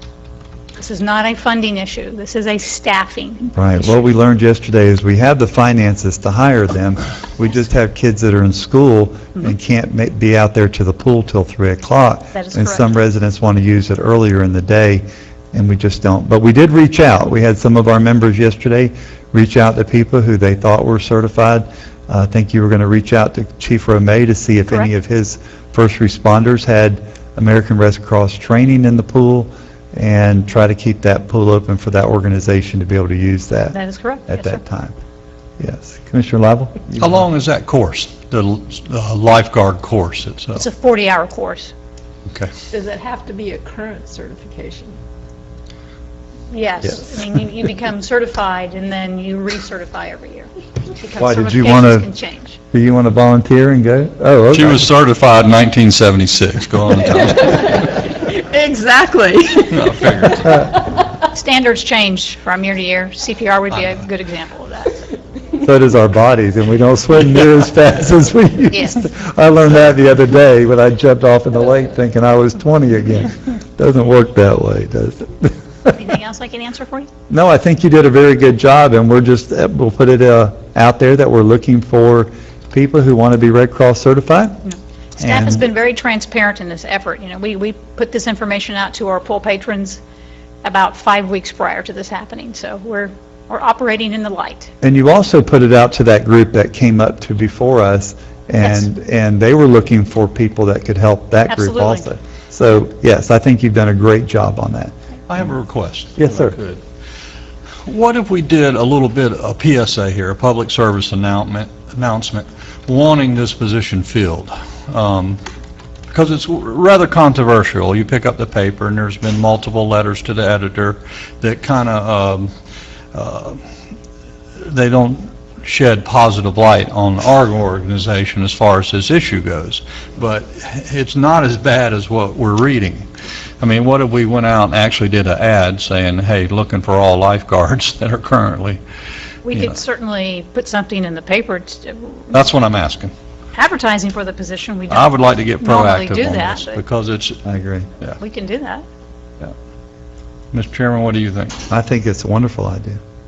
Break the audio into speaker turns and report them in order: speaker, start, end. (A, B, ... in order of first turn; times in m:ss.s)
0:00.8-0:03.5 A
0:03.5-0:33.8 B
0:12.3-0:12.8 A
0:33.7-0:34.6 A
0:34.3-0:34.9 B
0:35.6-0:37.1 B
0:37.0-0:40.6 C
0:40.5-0:41.7 A
0:42.7-0:45.0 D
0:46.5-0:50.5 A
0:51.0-0:52.6 A
0:51.2-0:52.1 B
0:52.7-0:54.9 B
0:54.5-0:57.8 C
0:57.4-0:59.9 D
0:59.6-1:00.7 C
1:00.4-1:01.0 D
1:01.3-1:05.0 A
1:05.6-1:15.9 B
1:08.7-1:09.0 A
1:15.9-1:17.1 A
1:17.3-1:24.6 B
1:24.6-1:30.0 A
1:25.2-1:25.6 B
1:30.6-1:34.7 A
1:34.8-1:44.9 B
1:38.6-1:38.9 A
1:41.5-1:42.0 A
1:45.3-1:46.8 C
1:46.2-1:46.6 B
1:47.8-1:55.4 C
1:56.1-2:02.5 C
2:03.1-2:03.6 C
2:04.6-2:13.1 C
2:13.6-2:18.8 C
2:19.4-2:22.4 A
2:22.3-2:23.1 C
2:23.5-2:26.8 A
2:24.9-2:27.4 C
2:27.4-2:27.9 B
2:28.2-2:28.8 A
2:30.5-2:31.6 C
2:31.7-2:33.0 B